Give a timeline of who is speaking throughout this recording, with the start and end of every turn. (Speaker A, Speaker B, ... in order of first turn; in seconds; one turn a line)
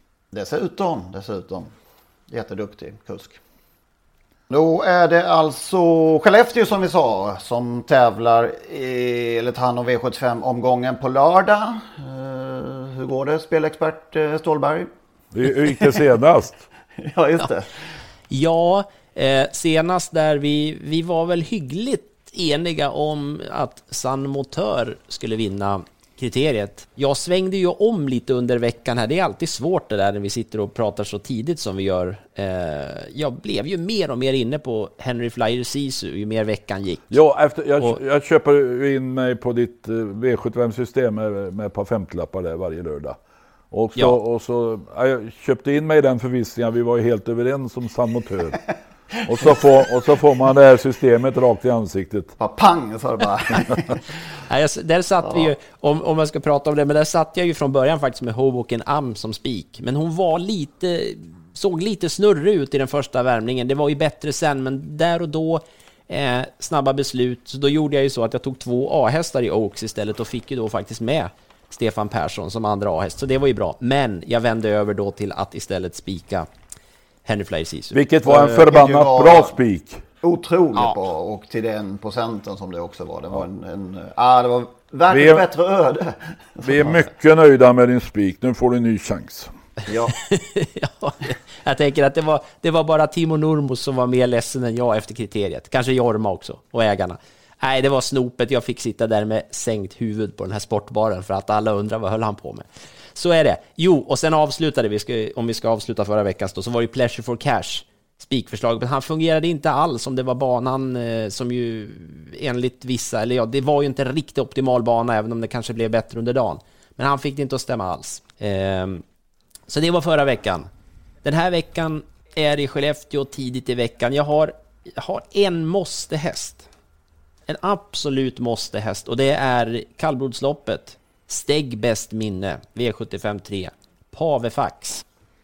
Speaker A: 0.3-1.7
Speaker A: 2.3-3.4
Speaker A: 4.5-14.9
Speaker B: 15.3-16.6
Speaker A: 17.0-17.7
Speaker C: 18.3-37.2
Speaker B: 37.1-43.2
Speaker B: 43.7-48.6
Speaker B: 49.2-52.3
Speaker A: 52.4-54.0
Speaker C: 54.5-76.5
Speaker A: 55.3-55.5
Speaker C: 77.2-78.0
Speaker B: 77.9-80.0
Speaker A: 78.3-79.5
Speaker A: 80.2-87.1
Speaker B: 85.1-85.4
Speaker B: 86.6-89.5
Speaker A: 89.9-90.2
Speaker C: 90.2-119.0
Speaker C: 119.7-120.7
Speaker C: 121.2-126.7
Speaker C: 127.5-135.0